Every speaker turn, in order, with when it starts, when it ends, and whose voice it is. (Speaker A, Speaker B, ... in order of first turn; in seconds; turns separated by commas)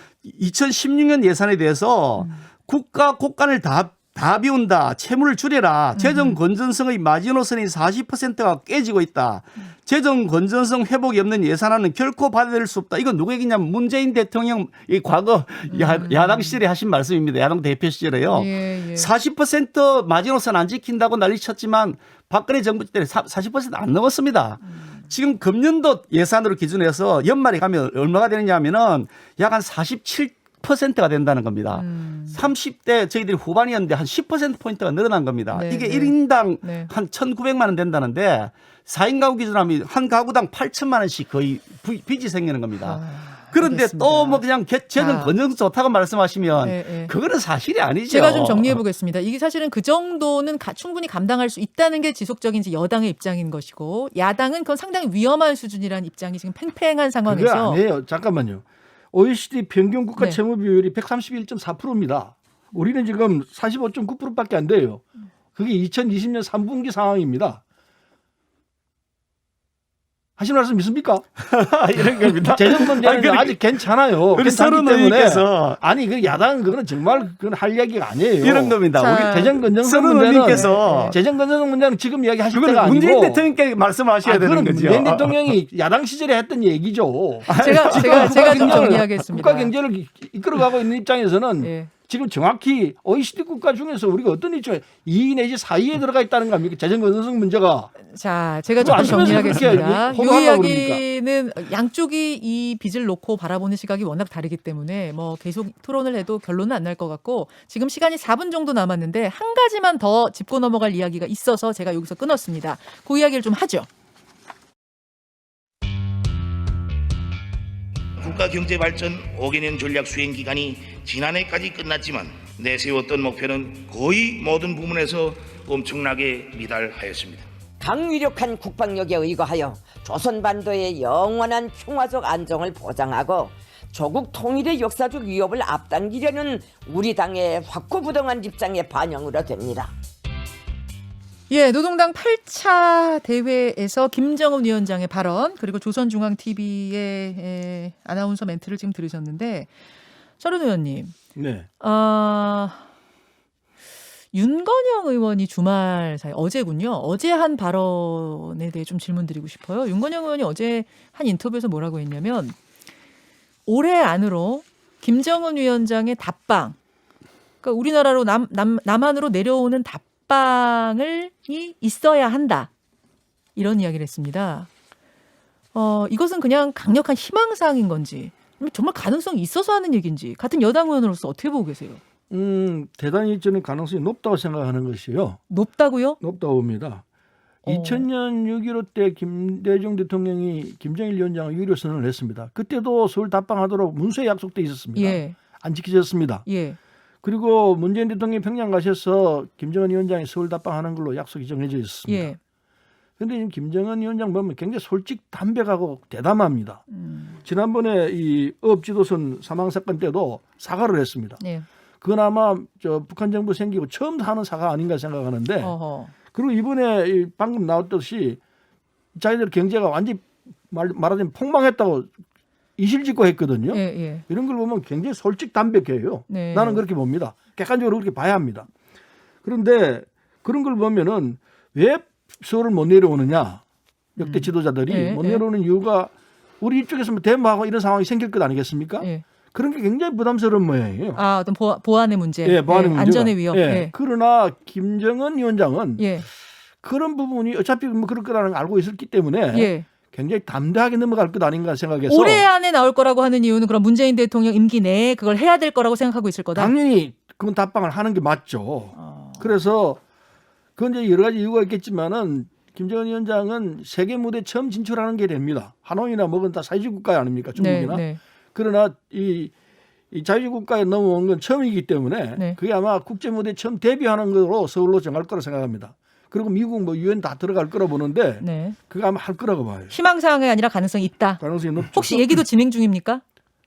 Speaker A: 0.2-48.8, Speaker B: 2.2-2.4, Speaker B: 6.0-6.4, Speaker B: 15.7-16.6, Speaker B: 18.3-19.1, Speaker B: 24.6-25.0, Speaker B: 31.7-32.4, Speaker B: 35.5-36.9, Speaker B: 42.8-45.3, Speaker B: 46.6-47.1, Speaker B: 48.1-57.8, Speaker C: 57.2-67.6, Speaker C: 70.4-71.2, Speaker A: 71.4-73.7, Speaker C: 72.4-83.5, Speaker A: 74.3-75.8, Speaker A: 78.4-81.2, Speaker B: 78.9-79.6, Speaker B: 80.4-81.2, Speaker A: 82.5-85.3, Speaker C: 84.2-98.0, Speaker A: 87.5-89.0, Speaker B: 87.5-89.7, Speaker B: 91.6-91.9, Speaker B: 98.0-113.9, Speaker C: 98.8-101.0, Speaker D: 118.2-127.5, Speaker E: 127.8-139.9, Speaker B: 141.5-149.7, Speaker B: 150.4-151.1, Speaker C: 151.3-151.7, Speaker B: 151.8-152.9, Speaker B: 154.3-162.6, Speaker B: 163.7-166.8, Speaker B: 167.6-172.7, Speaker B: 173.6-174.7, Speaker B: 175.7-182.0, Speaker C: 182.3-185.4, Speaker B: 185.5-186.2, Speaker C: 186.2-187.0, Speaker B: 187.7-188.0, Speaker C: 187.7-196.4, Speaker B: 194.9-195.4, Speaker B: 196.4-196.8, Speaker C: 197.2-202.3, Speaker B: 202.1-202.4, Speaker C: 203.2-206.8, Speaker B: 206.9-207.4, Speaker C: 207.4-211.4, Speaker B: 211.4-211.7, Speaker C: 212.0-215.7, Speaker B: 215.6-216.1, Speaker C: 216.3-218.4, Speaker C: 219.2-222.1, Speaker C: 222.8-228.7, Speaker B: 223.7-224.2, Speaker B: 226.3-226.8, Speaker C: 229.4-233.6, Speaker C: 234.2-241.2, Speaker B: 234.2-235.4, Speaker B: 241.1-243.9, Speaker C: 242.4-246.1, Speaker B: 246.0-246.3, Speaker C: 246.8-252.5, Speaker B: 249.5-249.8, Speaker B: 252.1-256.7, Speaker C: 256.5-260.0, Speaker B: 258.9-259.6, Speaker C: 260.8-269.5, Speaker B: 267.6-268.2, Speaker C: 270.1-279.9, Speaker B: 278.4-278.8, Speaker B: 279.9-283.2, Speaker C: 281.4-282.4